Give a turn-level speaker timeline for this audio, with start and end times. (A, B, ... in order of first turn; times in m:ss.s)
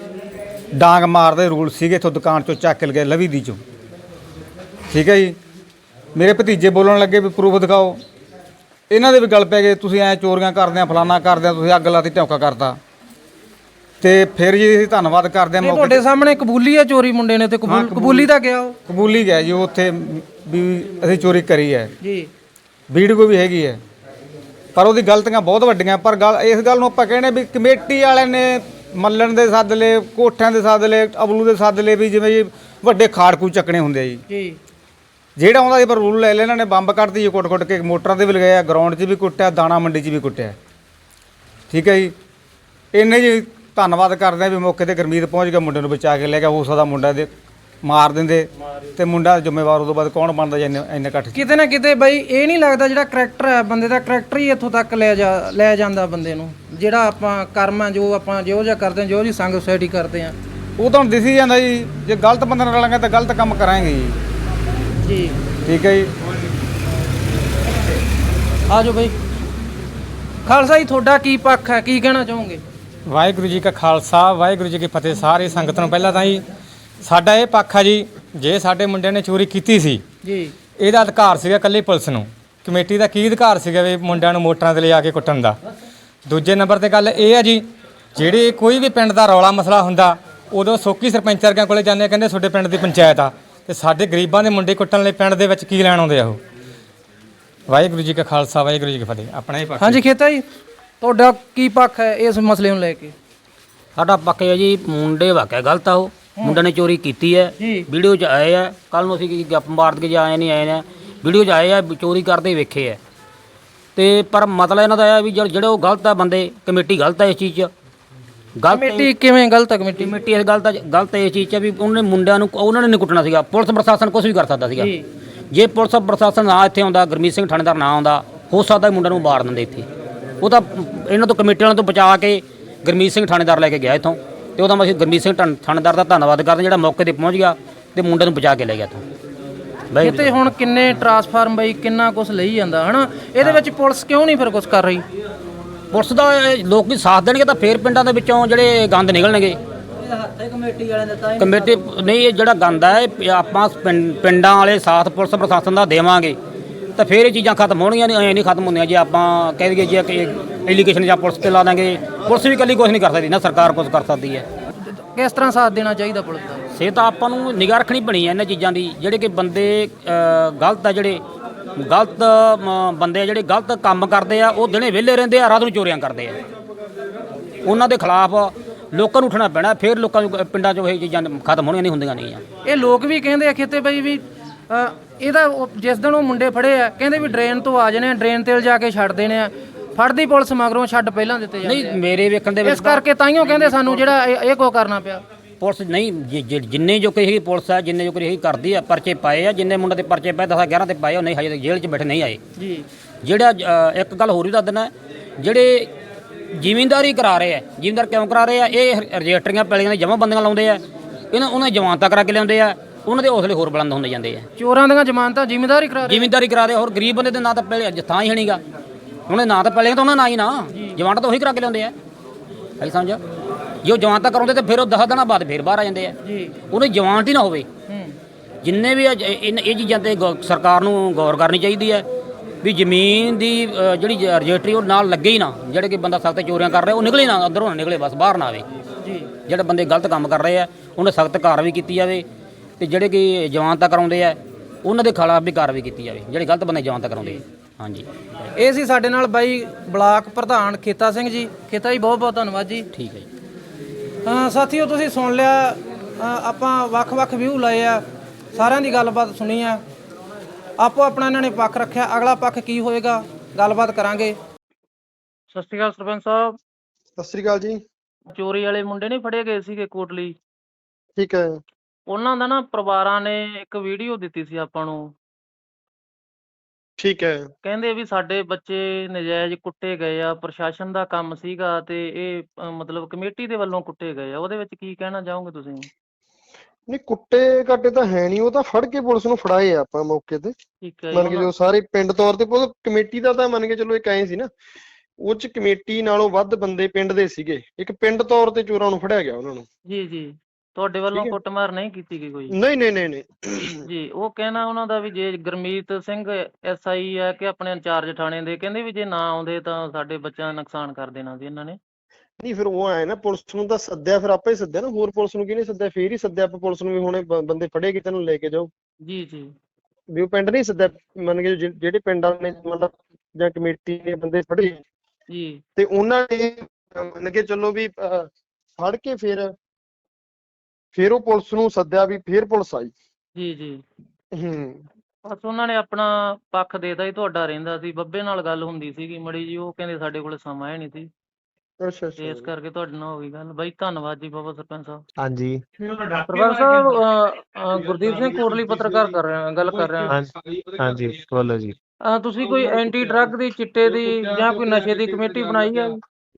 0:00.8-0:03.6 A
0:04.9-0:05.4 A
0:06.1-0:08.0 A
0:08.9-0:12.8 A
0:14.0-0:16.0 A
0:15.6-0:18.7 B
0:17.6-0:18.3 A
0:18.8-0:21.9 A
0:22.0-0:22.3 B
0:22.9-0:23.8 A
0:24.7-0:34.2 A
0:34.3-0:34.6 B
0:35.4-0:40.5 A
0:41.7-0:42.1 A
0:42.9-0:47.3 A
0:47.8-0:51.4 A
0:51.3-1:00.3 B
1:00.8-1:04.2 A
1:05.0-1:05.3 B
1:05.6-1:06.1 A
1:08.7-1:09.1 B
1:10.5-1:12.6 B
1:13.1-1:16.4 C
1:17.0-1:20.0 C
1:20.2-1:20.5 B
1:20.8-1:25.6 C
1:26.2-1:36.4 C
1:37.7-1:40.0 C
1:39.8-1:40.4 B
1:41.0-1:43.1 B
1:44.0-1:53.0 D
1:47.6-1:47.9 B
1:54.0-1:57.7 D
1:58.6-1:59.1 D
1:58.7-2:00.1 B
2:00.0-2:04.9 D
2:04.8-2:05.1 B
2:05.5-2:09.9 D
2:10.4-2:19.0 D
2:19.9-2:20.3 D
2:20.0-2:25.0 B
2:25.9-2:29.6 D
2:30.4-2:31.3 B
2:31.4-2:36.4 D
2:37.0-2:44.4 D
2:45.0-2:46.6 B
2:46.7-2:51.2 D
2:51.8-2:56.4 D
2:57.6-3:02.4 D
3:02.6-3:12.0 B
3:11.6-3:13.7 D
3:12.6-3:15.2 B
3:15.6-3:22.4 D
3:22.6-3:22.8 B
3:23.2-3:25.9 D
3:26.5-3:34.4 D
3:34.6-3:36.3 B
3:36.1-3:38.6 D
3:39.3-3:41.9 D
3:40.7-3:41.0 B
3:42.8-3:43.2 D
3:43.8-3:46.1 D
3:46.2-3:46.6 B
3:46.7-3:47.6 D
3:47.9-3:48.2 B
3:48.6-3:52.0 D
3:52.6-3:58.6 D
3:59.0-3:59.3 B
3:59.4-4:02.2 D
4:02.8-4:08.5 D
4:08.6-4:12.9 B
4:12.9-4:13.2 D
4:14.2-4:18.0 B
4:18.5-4:19.8 B
4:20.8-4:24.4 B
4:25.5-4:26.6 B
4:27.2-4:27.8 E
4:28.3-4:30.3 B
4:31.2-4:31.6 E
4:32.1-4:35.1 B
4:37.0-4:37.4 E
4:37.6-4:45.9 B
4:46.9-4:50.5 E
4:50.8-4:51.5 B
4:51.1-4:54.5 E
4:55.2-4:59.6 E
4:59.9-5:02.6 B
5:02.5-5:03.7 E
5:03.8-5:11.8 B
5:12.4-5:18.7 E
5:19.0-5:19.5 B
5:20.1-5:24.8 E
5:25.3-5:25.6 B
5:25.8-5:29.5 E
5:30.9-5:32.9 E
5:33.4-5:33.8 B
5:34.3-5:34.8 E
5:35.2-5:41.1 B
5:41.8-5:42.5 E
5:42.2-5:45.0 B
5:45.2-5:46.9 F
5:46.3-5:50.2 B
5:48.0-5:48.3 F
5:50.0-5:51.7 F
5:52.1-5:56.0 B